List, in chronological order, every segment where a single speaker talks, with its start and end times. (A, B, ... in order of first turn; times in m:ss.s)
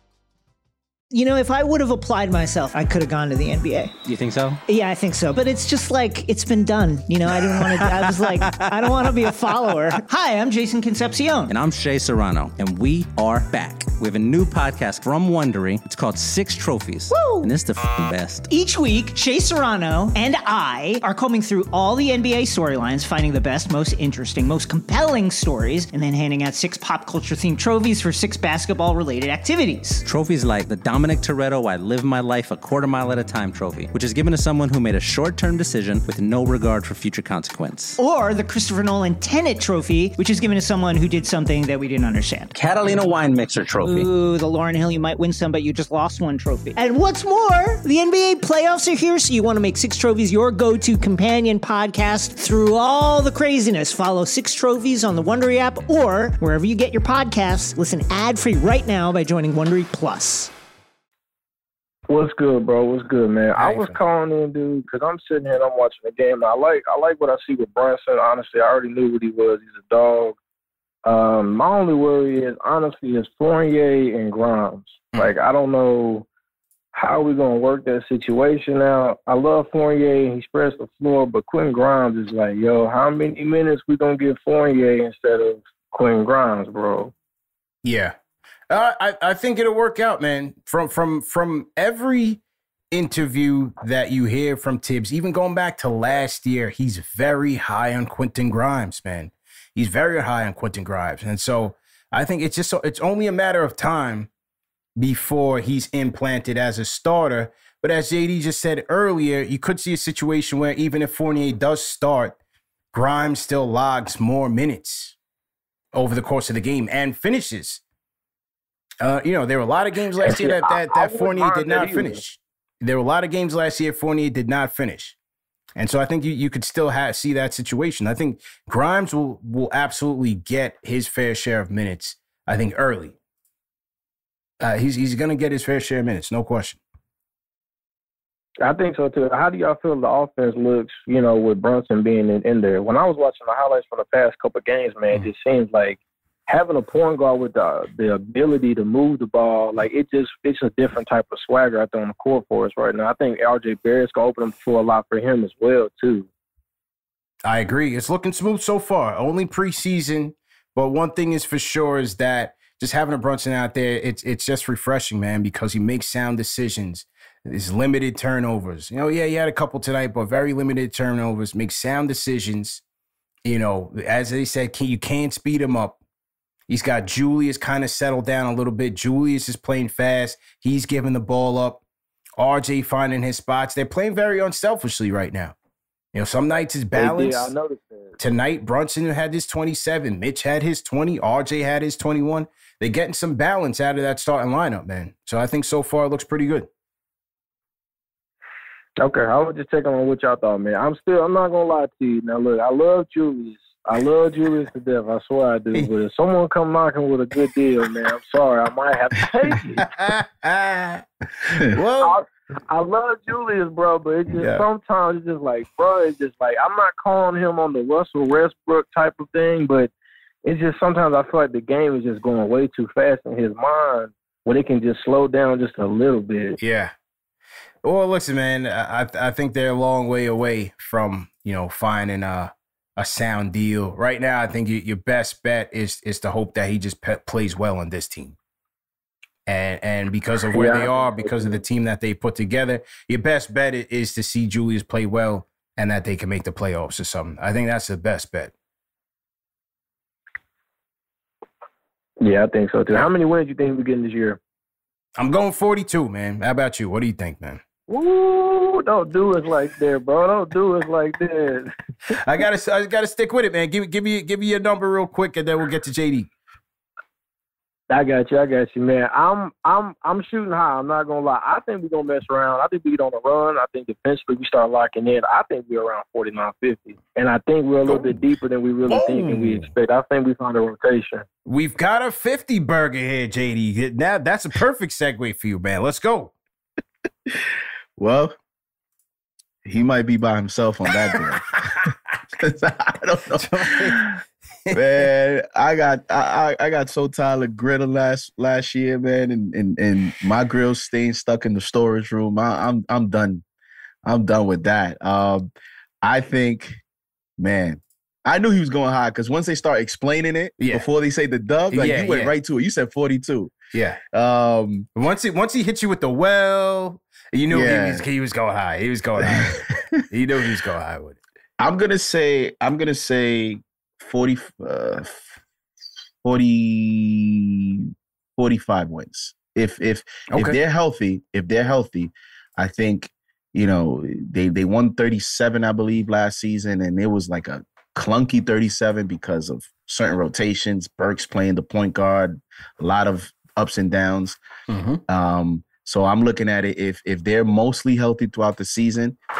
0:01.1-0:03.9 A
0:04.0-0:04.6 B
0:04.7-0:11.5 A
0:11.5-0:18.5 B
0:17.1-0:17.5 A
0:18.5-0:30.0 A
0:30.0-0:38.0 B
0:38.0-0:42.5 A
0:42.5-0:44.1 B
0:43.8-1:00.5 A
1:02.1-1:10.4 C
1:03.5-1:04.0 D
1:11.0-1:16.3 C
1:16.9-1:27.1 C
1:27.8-1:28.1 D
1:28.7-1:32.4 D
1:32.9-1:44.3 D
1:45.0-1:52.4 D
1:52.9-1:55.1 D
1:55.9-1:57.8 D
1:59.0-2:05.2 D
2:00.2-2:02.2 C
2:05.8-2:13.2 D
2:14.6-2:16.8 D
2:18.6-2:36.3 C
2:37.4-2:52.8 D
2:53.4-2:56.0 D
2:56.7-3:01.8 D
3:02.4-3:05.5 D
3:06.1-3:07.5 D
3:06.9-3:08.1 C
3:08.2-3:16.7 D
3:19.0-3:29.9 C
3:29.9-3:32.2 D
3:32.0-3:39.9 C
3:34.4-3:34.6 D
3:40.4-3:46.6 C
3:46.6-3:46.9 D
3:47.8-3:58.4 D
3:59.4-4:08.5 D
4:00.5-4:01.6 C
4:12.2-4:14.4 C
4:15.2-4:17.6 D
4:17.9-4:21.7 C
4:22.1-4:26.3 D
4:27.9-4:41.2 C
4:37.8-4:38.2 D
4:38.8-4:39.7 D
4:41.4-4:46.3 D
4:48.0-4:48.4 E
4:49.6-4:51.6 E
4:52.3-4:54.1 E
4:53.4-4:54.1 D
4:54.7-5:03.4 E
5:04.0-5:05.4 E
5:06.0-5:06.8 E
5:07.4-5:13.5 E
5:10.6-5:10.8 D
5:11.7-5:12.3 D
5:13.7-5:14.0 D
5:14.1-5:14.9 E
5:14.9-5:21.2 D
5:17.5-5:18.0 E
5:19.2-5:20.0 E
5:21.6-5:25.4 E
5:26.2-5:44.4 E
5:30.3-5:30.6 D
5:44.7-5:45.0 D
5:45.1-5:49.2 E